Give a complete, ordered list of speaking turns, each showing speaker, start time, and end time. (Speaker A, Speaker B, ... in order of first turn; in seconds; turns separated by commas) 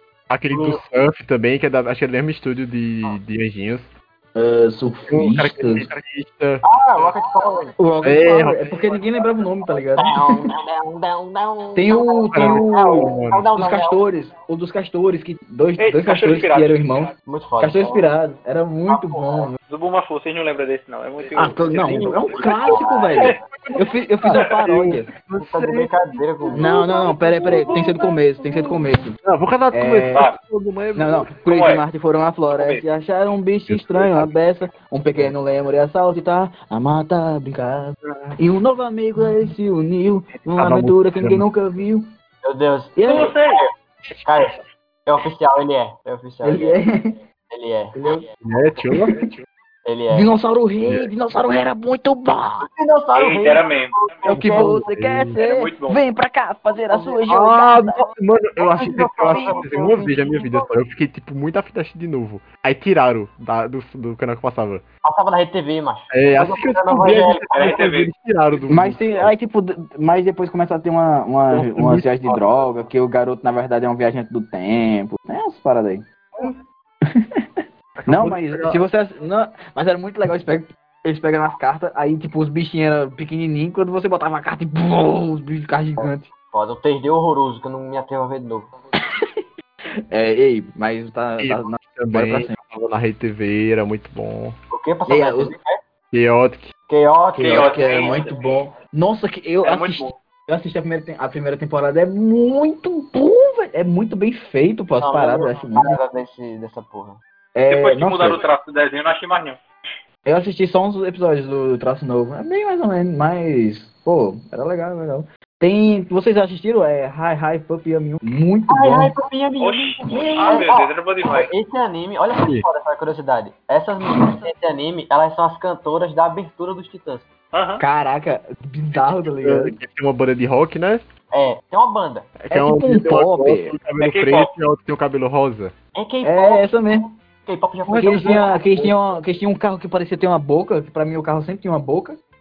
Speaker A: 0.3-3.9, Speaker B: 0.5-0.8, Speaker C: 4.3-5.9, Speaker A: 5.1-6.6, Speaker B: 6.6-7.7, Speaker C: 7.8-10.3, Speaker A: 8.0-9.0, Speaker B: 10.0-14.0, Speaker C: 11.7-19.6, Speaker A: 12.3-13.5, Speaker D: 15.8-17.1, Speaker B: 17.2-18.1, Speaker B: 18.9-19.5, Speaker D: 19.7-23.3, Speaker B: 21.2-23.4, Speaker C: 21.3-25.1, Speaker A: 23.5-25.9, Speaker B: 25.4-26.7, Speaker C: 26.5-29.1, Speaker A: 27.5-27.8, Speaker A: 29.2-31.3, Speaker C: 29.7-30.2, Speaker C: 30.9-42.0, Speaker D: 31.4-31.8, Speaker D: 32.5-32.8, Speaker A: 33.7-34.3, Speaker A: 38.0-38.4, Speaker A: 40.3-41.5, Speaker B: 42.4-43.7, Speaker C: 43.0-43.3, Speaker D: 43.1-43.6, Speaker B: 44.2-46.8, Speaker C: 46.4-47.1, Speaker B: 47.5-48.8, Speaker C: 47.9-48.2, Speaker A: 48.4-49.4, Speaker B: 49.9-50.3, Speaker C: 50.1-52.7, Speaker B: 52.6-54.6, Speaker D: 53.1-54.5, Speaker C: 54.2-58.0, Speaker A: 54.3-55.4, Speaker D: 55.4-56.0, Speaker B: 56.8-57.3, Speaker A: 57.3-64.8, Speaker B: 58.6-60.7, Speaker B: 65.0-67.8, Speaker A: 66.1-69.3, Speaker D: 67.5-68.1, Speaker C: 68.7-76.5, Speaker A: 71.5-72.5, Speaker C: 77.1-86.3, Speaker A: 78.0-78.8, Speaker B: 86.0-88.7, Speaker C: 89.0-89.4, Speaker C: 90.1-92.5, Speaker A: 91.4-94.5, Speaker B: 94.7-95.8, Speaker C: 95.1-95.5, Speaker A: 96.1-96.7, Speaker B: 96.9-98.3, Speaker C: 97.3-106.0, Speaker D: 97.4-98.4, Speaker D: 99.6-100.2, Speaker B: 105.0-107.2, Speaker C: 107.5-108.4, Speaker D: 107.7-109.6, Speaker C: 110.2-119.1, Speaker B: 118.7-127.3, Speaker D: 119.6-121.5, Speaker C: 120.1-120.7, Speaker A: 122.3-122.6, Speaker D: 127.5-127.8, Speaker C: 127.8-129.7, Speaker A: 128.9-131.0, Speaker B: 131.3-132.3, Speaker A: 132.4-135.7, Speaker C: 132.5-133.7, Speaker D: 134.0-134.5, Speaker B: 135.9-138.9, Speaker C: 136.2-137.1, Speaker A: 137.8-138.5, Speaker C: 138.0-142.2